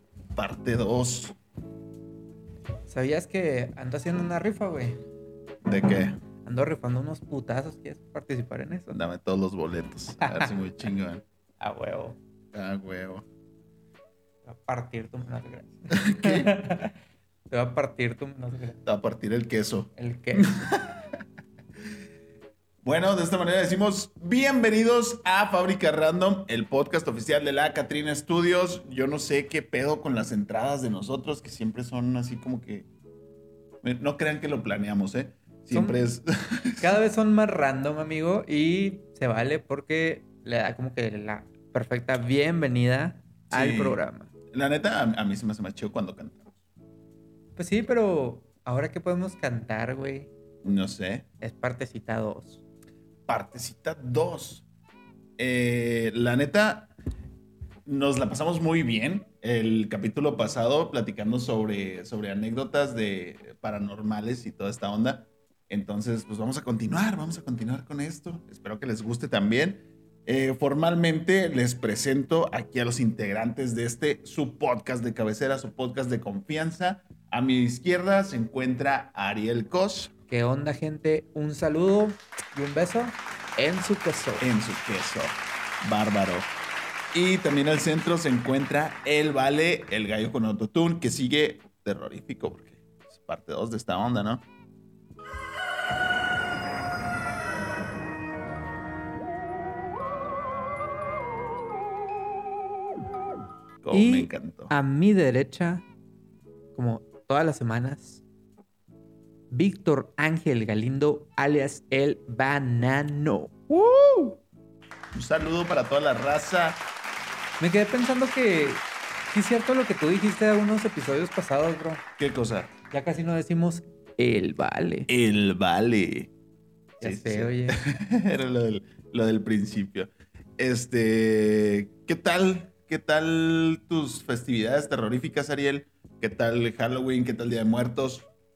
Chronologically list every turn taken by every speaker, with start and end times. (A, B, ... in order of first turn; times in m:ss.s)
0:00.3-0:01.4 A
0:02.9-0:05.0 B
0:05.6-0:06.2 A
0:06.4-0:09.0 B
0:08.9-0:11.2 A
0:10.2-0:10.5 B
0:11.6-0:12.2 B
0:12.5-0:13.2 A
0:14.4-0:16.9 B
0:15.9-0:16.6 A
0:17.5-0:18.8 B
0:18.8-0:21.2 A
0:20.0-0:20.6 B
0:22.8-0:32.9 A
0:33.8-0:37.0 A
0:35.7-0:36.0 B
0:36.8-0:44.3 B
0:43.5-0:44.0 A
0:44.5-0:46.5 A
0:47.6-0:50.3 B
0:50.6-0:51.2 A
0:51.4-0:52.6 B
0:53.3-0:54.6 A
0:55.4-0:56.9 A
0:57.8-1:20.1 A
1:20.3-1:24.5 B
1:24.4-1:26.5 A
1:27.1-1:34.4 A
1:43.8-1:44.7 A
1:43.9-1:45.8 B
1:46.7-1:48.2 B
1:49.5-1:54.4 B
1:55.1-1:56.8 A
1:57.6-2:02.0 B
2:02.2-2:02.7 A
2:02.9-2:05.1 B
2:05.1-2:06.3 A
2:07.0-2:07.8 B
2:07.0-2:18.3 A